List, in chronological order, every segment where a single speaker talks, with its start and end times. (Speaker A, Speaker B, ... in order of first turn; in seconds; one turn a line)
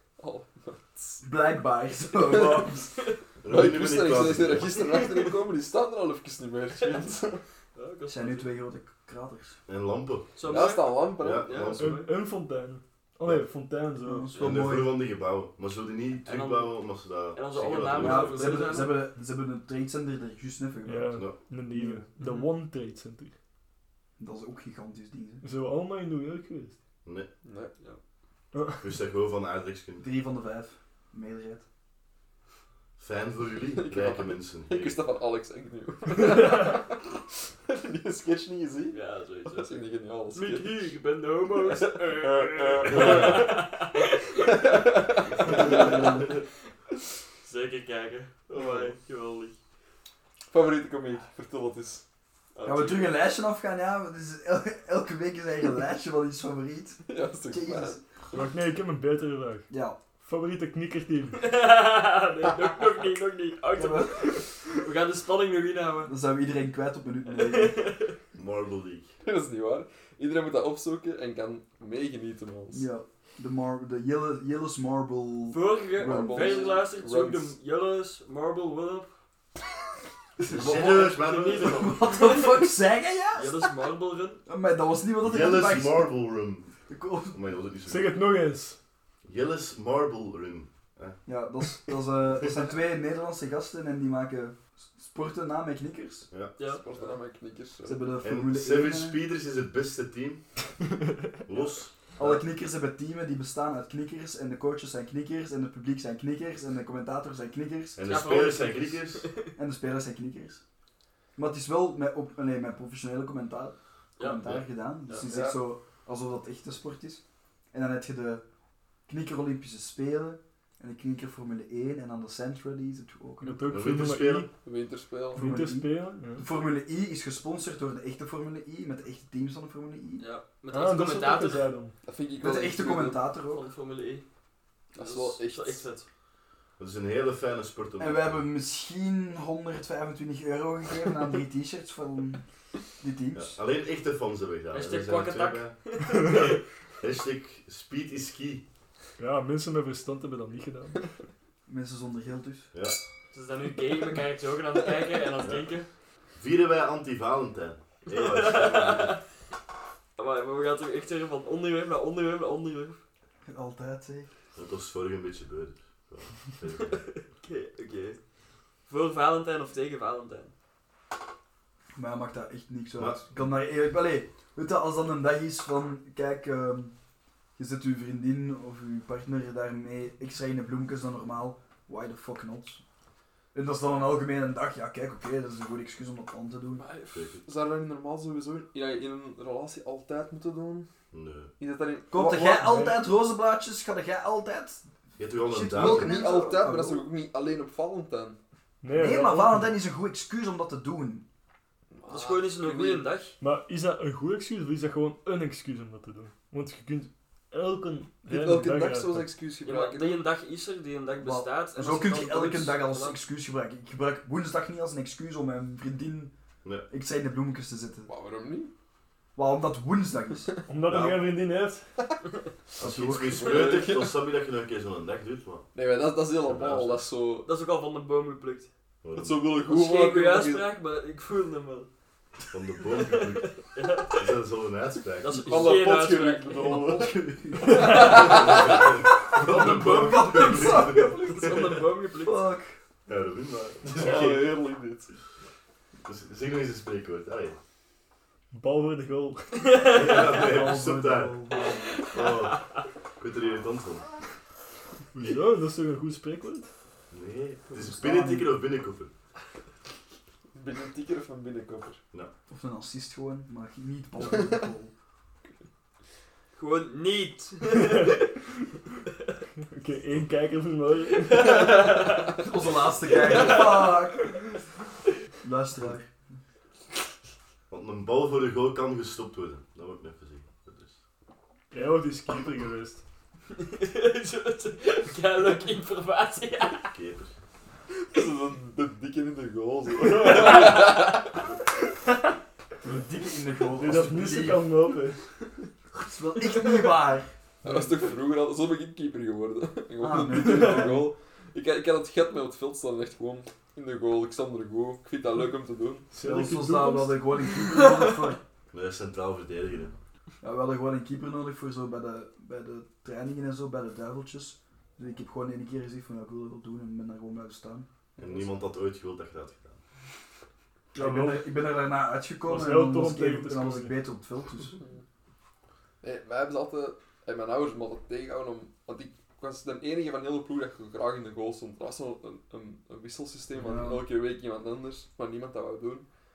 Speaker A: 0.2-1.2
Speaker B: 1.2-3.0
Speaker A: 2.2-2.6
Speaker C: 3.4-4.8
Speaker A: 3.5-7.4
Speaker D: 4.8-5.3
Speaker D: 6.8-7.1
Speaker D: 7.7-8.5
Speaker B: 8.1-9.6
Speaker C: 9.7-10.3
Speaker D: 10.3-12.1
Speaker A: 10.4-11.7
Speaker C: 11.2-12.1
Speaker E: 11.8-14.3
Speaker B: 14.0-15.0
Speaker C: 14.3-18.6
Speaker D: 16.2-16.8
Speaker D: 17.3-19.0
Speaker B: 17.9-22.1
Speaker A: 18.6-18.8
Speaker E: 20.9-23.3
Speaker B: 24.2-25.4
Speaker E: 25.4-26.8
Speaker A: 27.4-27.7
Speaker E: 28.5-28.8
Speaker C: 28.8-30.0
Speaker B: 30.0-31.6
Speaker C: 33.0-35.0
Speaker A: 33.7-37.0
Speaker E: 36.2-36.8
Speaker A: 37.7-40.9
Speaker D: 38.9-46.4
Speaker A: 41.5-43.5
Speaker C: 42.9-43.3
Speaker A: 44.4-46.2
Speaker B: 45.5-46.3
Speaker D: 47.4-49.5
Speaker A: 48.5-48.9
Speaker A: 50.5-52.0
Speaker D: 52.5-53.2
Speaker B: 52.6-58.0
Speaker A: 57.1-58.0
Speaker E: 58.3-61.4
Speaker B: 59.7-60.0
Speaker D: 61.4-66.1
Speaker B: 63.7-64.4
Speaker B: 66.1-67.8
Speaker D: 67.3-68.2
Speaker C: 68.3-69.1
Speaker A: 69.2-72.9
Speaker B: 72.7-76.7
Speaker D: 75.5-79.1
Speaker A: 76.0-77.5
Speaker B: 80.4-83.5
Speaker C: 80.5-82.0
Speaker D: 80.6-82.6
Speaker D: 83.3-84.4
Speaker B: 84.5-86.1
Speaker C: 85.2-86.8
Speaker B: 86.9-87.3
Speaker C: 87.3-88.2
Speaker E: 87.9-88.8
Speaker C: 89.2-91.2
Speaker B: 91.2-96.3
Speaker C: 96.3-96.5
Speaker D: 96.6-96.8
Speaker A: 96.6-98.1
Speaker B: 97.8-99.2
Speaker C: 98.2-100.4
Speaker C: 101.5-102.4
Speaker B: 102.2-108.0
Speaker C: 108.0-109.3
Speaker D: 108.0-109.5
Speaker B: 109.5-110.6
Speaker B: 111.3-118.4
Speaker D: 114.2-114.5
Speaker A: 115.2-115.6
Speaker B: 119.1-123.6
Speaker E: 123.4-124.5
Speaker C: 123.7-124.5
Speaker A: 124.5-125.4
Speaker E: 125.3-126.5
Speaker B: 125.3-130.2
Speaker D: 130.2-131.7
Speaker E: 130.7-131.9
Speaker A: 132.0-133.2
Speaker B: 132.4-133.6
Speaker D: 133.5-134.2
Speaker A: 134.9-135.9
Speaker D: 134.9-136.1
Speaker C: 136.8-138.4
Speaker B: 138.0-142.4
Speaker B: 143.0-143.5
Speaker C: 143.3-145.7
Speaker D: 144.7-146.6
Speaker C: 147.0-148.6
Speaker E: 149.2-151.1
Speaker B: 151.7-152.7
Speaker C: 152.7-153.0
Speaker D: 153.3-155.9
Speaker C: 156.3-159.2
Speaker D: 158.1-159.2
Speaker D: 160.2-163.0
Speaker B: 163.4-164.3
Speaker C: 164.6-167.1
Speaker D: 166.9-168.2
Speaker D: 168.9-170.5
Speaker B: 171.9-176.9
Speaker C: 173.0-173.4
Speaker B: 177.6-182.8
Speaker B: 183.5-186.8
Speaker A: 186.7-190.9
Speaker C: 187.1-187.4
Speaker C: 191.1-191.5
Speaker A: 191.6-192.9
Speaker B: 192.1-194.8
Speaker E: 192.6-192.9
Speaker C: 195.2-196.3
Speaker B: 195.4-197.1
Speaker A: 195.7-198.4
Speaker E: 198.8-199.8
Speaker B: 198.9-201.2
Speaker A: 201.9-203.1
Speaker D: 202.1-203.3
Speaker E: 203.4-209.3
Speaker A: 208.3-210.2
Speaker D: 209.6-213.2
Speaker B: 211.2-216.3
Speaker B: 216.9-218.1
Speaker A: 218.1-218.7
Speaker B: 219.3-220.5
Speaker E: 220.7-221.8
Speaker C: 220.9-221.2
Speaker B: 222.8-223.5
Speaker C: 222.8-225.7
Speaker A: 223.3-224.2
Speaker A: 225.7-227.5
Speaker C: 226.4-227.0
Speaker D: 227.4-228.7
Speaker C: 229.0-229.5
Speaker A: 229.2-230.7
Speaker D: 229.7-231.9
Speaker C: 232.5-233.6
Speaker D: 232.9-234.3
Speaker C: 234.1-235.7
Speaker D: 235.2-236.9
Speaker A: 235.4-238.9
Speaker B: 236.6-241.5
Speaker C: 238.0-241.8
Speaker D: 240.7-242.5
Speaker B: 242.2-242.7
Speaker C: 243.1-244.5
Speaker A: 243.9-245.1
Speaker C: 246.0-247.6
Speaker E: 248.5-249.6
Speaker D: 249.6-250.4
Speaker C: 249.9-251.4
Speaker B: 250.3-251.9
Speaker D: 251.9-252.6
Speaker C: 252.0-252.6
Speaker C: 253.2-254.1
Speaker E: 255.1-256.7
Speaker C: 257.1-259.1
Speaker B: 257.7-258.5
Speaker A: 260.5-262.0
Speaker B: 262.5-264.9
Speaker D: 266.6-268.3
Speaker E: 269.7-271.7
Speaker D: 271.1-272.3
Speaker B: 272.4-274.4
Speaker D: 273.1-274.0
Speaker B: 275.4-276.1
Speaker C: 277.7-281.0
Speaker E: 281.7-283.0
Speaker D: 283.6-286.9
Speaker C: 286.8-287.3
Speaker A: 288.1-291.4
Speaker D: 290.1-291.3
Speaker E: 290.1-290.8
Speaker B: 292.8-294.7
Speaker E: 293.8-295.2
Speaker B: 295.9-297.3
Speaker D: 296.4-296.9
Speaker A: 297.6-306.1
Speaker B: 300.0-301.1
Speaker E: 300.3-300.9
Speaker E: 306.1-307.4
Speaker B: 306.2-308.4
Speaker D: 307.7-308.1
Speaker C: 308.7-309.9
Speaker B: 310.4-317.9
Speaker C: 318.2-319.8
Speaker B: 320.9-324.8
Speaker E: 320.9-321.6
Speaker E: 322.4-324.0
Speaker A: 324.7-325.0
Speaker A: 326.0-336.1
Speaker B: 333.5-334.0